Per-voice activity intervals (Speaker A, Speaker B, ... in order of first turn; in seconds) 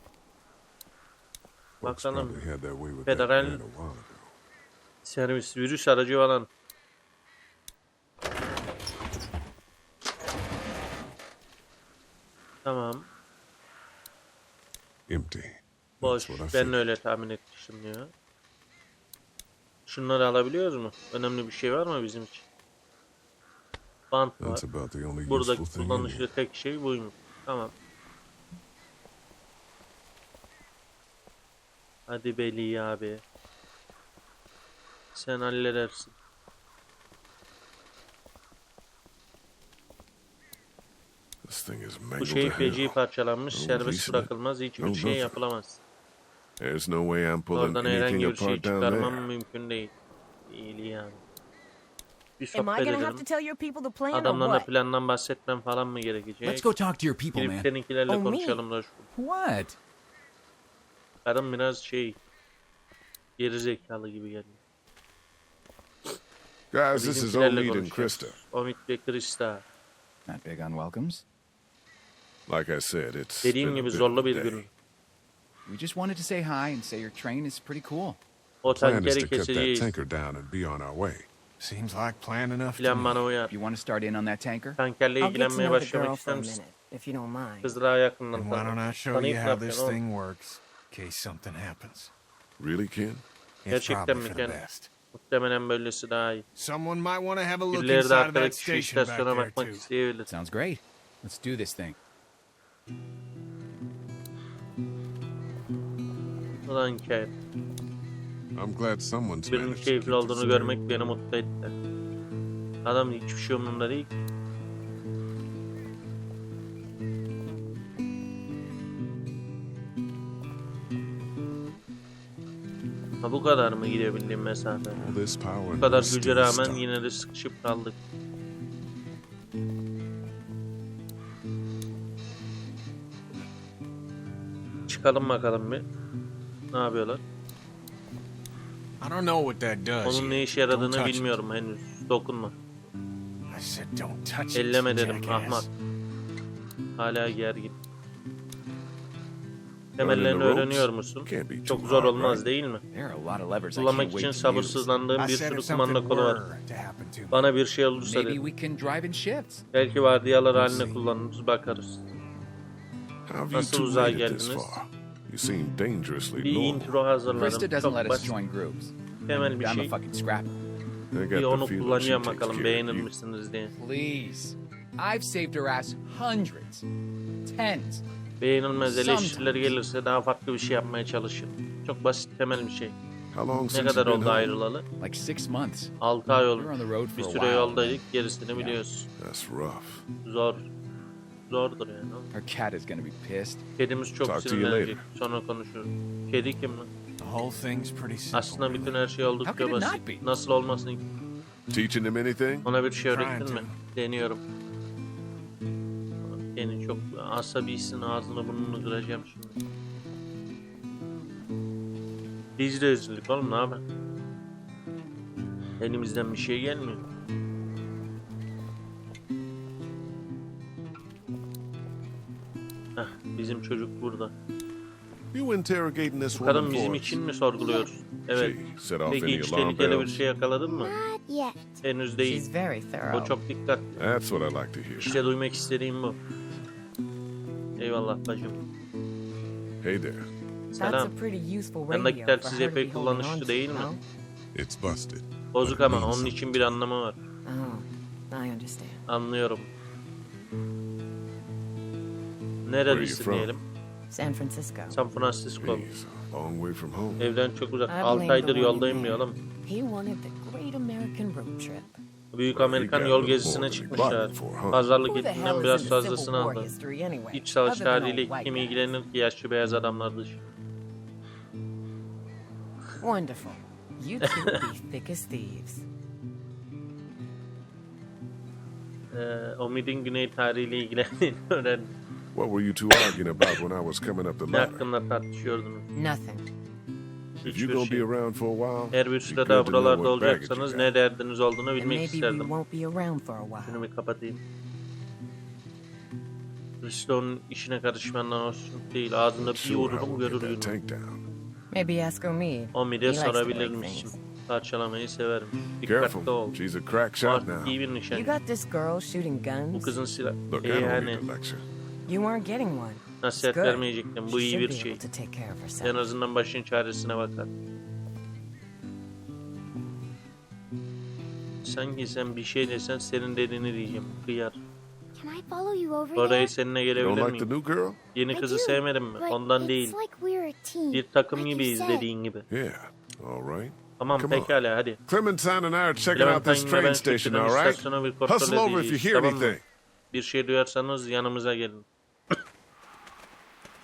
Speaker A: 1.8-2.5, 3.0-3.6, 5.0-6.5, 12.7-13.1, 16.0-18.1, 19.9-22.4, 24.1-24.6, 25.2-27.7, 32.1-33.2, 35.1-36.1, 42.2-45.8, 47.5-49.9, 50.5-51.2, 52.4-53.3, 54.1-56.7, 57.3-59.1, 61.2-62.2, 63.4-64.6, 66.9-69.6, 73.4-74.7, 78.6-80.0, 82.8-83.5, 84.8-86.6, 87.6-90.0, 93.7-96.5, 97.7-100.3, 106.7-107.3, 109.5-111.7, 112.8-114.1, 123.2-125.0, 125.8-128.0, 134.9-135.8, 136.7-137.2, 140.0-142.5, 144.5-145.7, 147.0-147.8, 150.0-152.8, 153.8-156.4, 157.3-158.4, 159.7-162.1, 163.5-164.8, 166.4-168.3, 169.3-169.9, 171.3-173.7, 178.4-182.9, 183.7-184.8, 186.0-189.1, 190.2-190.7, 191.5-192.3, 193.8-196.9, 198.3-201.0, 202.6-204.4, 206.2-209.6, 212.6-213.8, 215.8-217.0, 223.0-224.3, 226.3-230.9, 231.8-232.5, 233.1-234.0, 235.0-236.2, 237.8-238.6, 240.7-241.1, 241.9-243.9, 245.5-247.2, 249.1-249.7, 252.7-253.6, 254.9-255.9, 257.2-259.4, 262.3-266.7, 267.3-270.4, 274.2-274.6, 279.1-281.9, 284.5-285.9, 287.4-288.1, 288.9-292.5, 293.6-294.4, 296.8-300.8, 302.7-306.6, 307.2-308.4, 309.7-311.2, 313.2-315.0, 315.8-317.5, 321.6-324.6, 326.1-327.5, 328.1-330.0, 330.9-332.5, 334.0-335.0, 336.1-339.6, 340.1-341.9
Speaker B: 1.8-4.3, 15.1-16.8, 24.4-26.3, 41.4-43.0, 43.5-45.4, 46.6-49.3, 66.7-68.4, 72.5-74.7, 78.7-81.3, 92.6-93.2, 108.5-110.8, 125.0-126.9, 150.0-152.5, 163.3-167.0, 171.1-173.1, 183.3-184.6, 189.2-190.1, 194.2-195.0, 201.7-202.7, 225.3-227.2, 228.3-230.2, 234.0-235.2, 239.8-240.3, 244.5-246.8, 252.9-253.5, 255.6-257.3, 262.5-264.9, 282.3-284.9, 287.4-290.9, 299.4-301.2, 305.8-307.8, 310.5-311.7, 327.0-328.0, 332.5-339.6
Speaker C: 52.5-54.7, 58.1-58.6, 85.2-87.8, 232.2-233.4, 240.8-244.0, 247.4-249.0, 254.1-255.0, 257.9-262.0, 265.0-268.9, 273.0-275.9, 285.9-286.5, 291.8-293.9, 301.7-304.2, 308.1-310.0, 312.1-316.0
Speaker D: 56.4-57.7, 59.1-59.8, 70.3-71.2, 75.7-78.2, 83.5-84.8, 100.3-102.0, 152.9-155.0, 158.0-159.7, 167.3-168.9, 169.6-170.6, 173.7-176.8, 177.4-178.0, 178.8-179.8, 185.0-185.9, 186.6-188.0, 188.5-188.8, 192.3-193.6, 199.4-200.3
Speaker E: 81.6-83.3, 88.3-92.1, 93.6-94.9, 96.6-99.9, 139.0-141.3, 143.5-145.7, 155.2-157.5, 160.5-161.0, 197.2-199.0, 203.1-203.8
Speaker F: 227.6-227.9, 230.6-231.8, 325.2-326.5, 328.3-332.1